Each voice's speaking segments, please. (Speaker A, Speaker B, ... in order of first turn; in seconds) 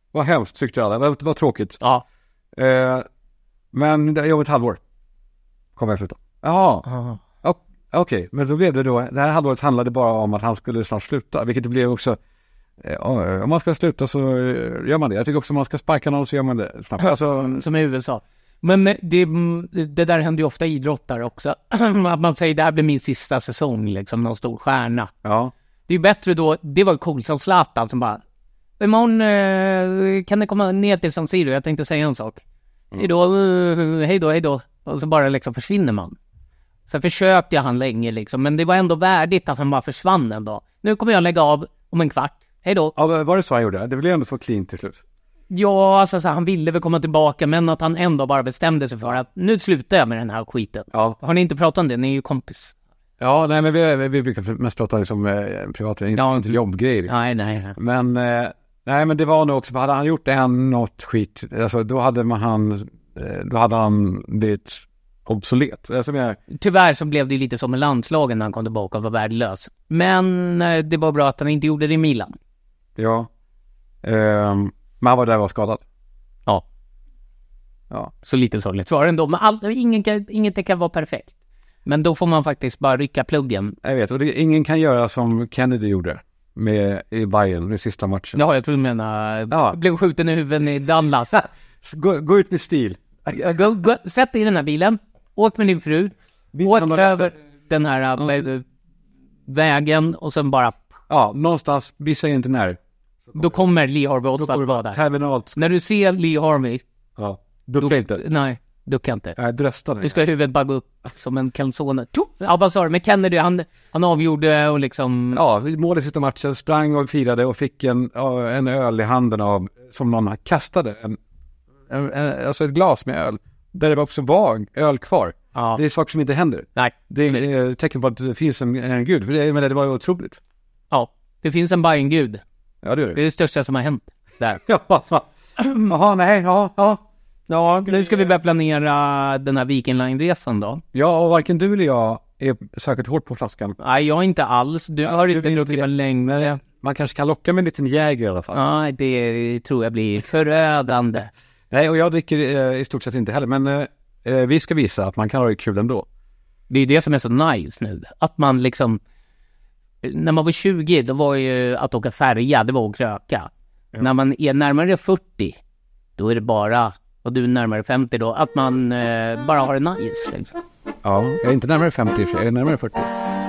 Speaker A: 0.1-1.8, 2.5-3.0, 3.7-4.8, 5.8-6.9, 7.4-12.2, 12.8-17.6, 25.2-25.5, 43.0-45.0, 50.9-51.2, 53.2-57.1, 57.8-66.4, 73.0-73.3, 74.0-75.8, 83.8-88.4, 89.5-89.8, 91.4-93.4, 96.5-97.3, 98.2-98.4, 101.1-103.6, 104.4-105.6, 107.2-108.2, 109.4-110.2, 115.3-121.2, 121.9-130.4, 132.8-133.2, 134.7-135.3, 135.9-138.3, 140.9-143.8, 145.1-148.6, 151.7-156.1, 171.0-173.1
Speaker B: 6.9-7.2, 17.0-25.1, 25.9-28.2, 28.8-32.4, 33.0-36.2, 36.9-42.9, 45.5-52.7, 56.2-57.8, 66.5-72.3, 78.2-81.3, 81.8-83.8, 88.4-91.4, 93.3-96.1, 96.6-98.6, 99.5-100.9, 103.3-105.0, 105.6-106.8, 107.8-109.4, 110.0-115.4, 125.5-125.8, 126.8-127.1, 130.9-132.4, 133.2-134.6, 135.6-135.9, 137.8-140.8, 143.8-146.5, 148.5-151.3, 156.7-159.0, 160.0-165.6, 166.2-170.5